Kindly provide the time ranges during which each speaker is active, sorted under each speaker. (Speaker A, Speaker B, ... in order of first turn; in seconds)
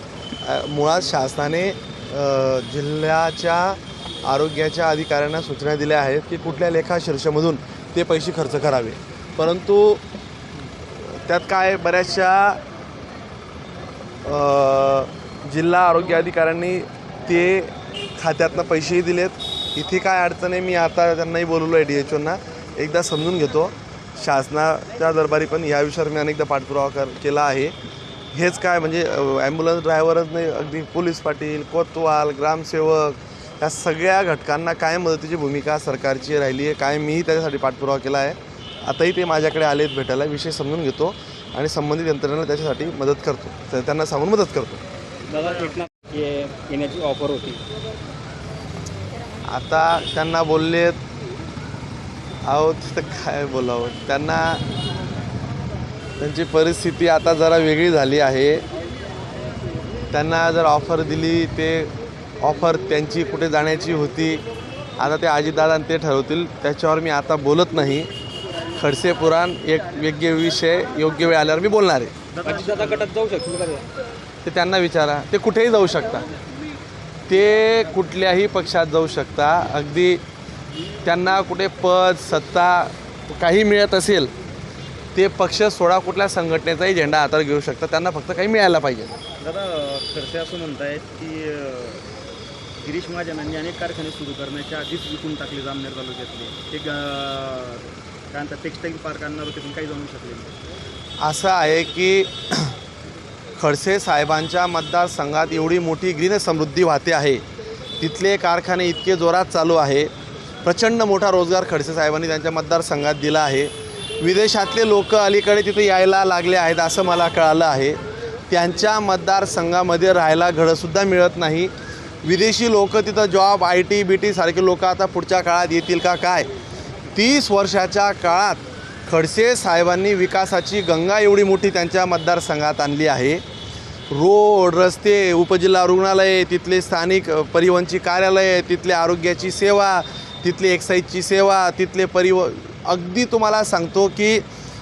Speaker A: 0.4-10.0, 11.0-12.6, 14.2-27.7, 28.3-44.8, 49.5-51.0, 52.4-54.6, 56.2-58.6, 60.1-64.4, 65.0-68.1, 68.8-72.1, 74.4-76.3, 77.3-80.2, 81.0-84.3, 85.1-89.1, 101.2-102.7, 103.6-107.4, 108.0-110.1, 110.6-121.7, 122.2-126.5, 127.1-133.4, 134.1-144.4
Speaker B: 45.3-47.6, 72.4-73.9
Speaker C: 45.3-45.7, 72.3-73.1, 89.4-92.0, 92.8-100.5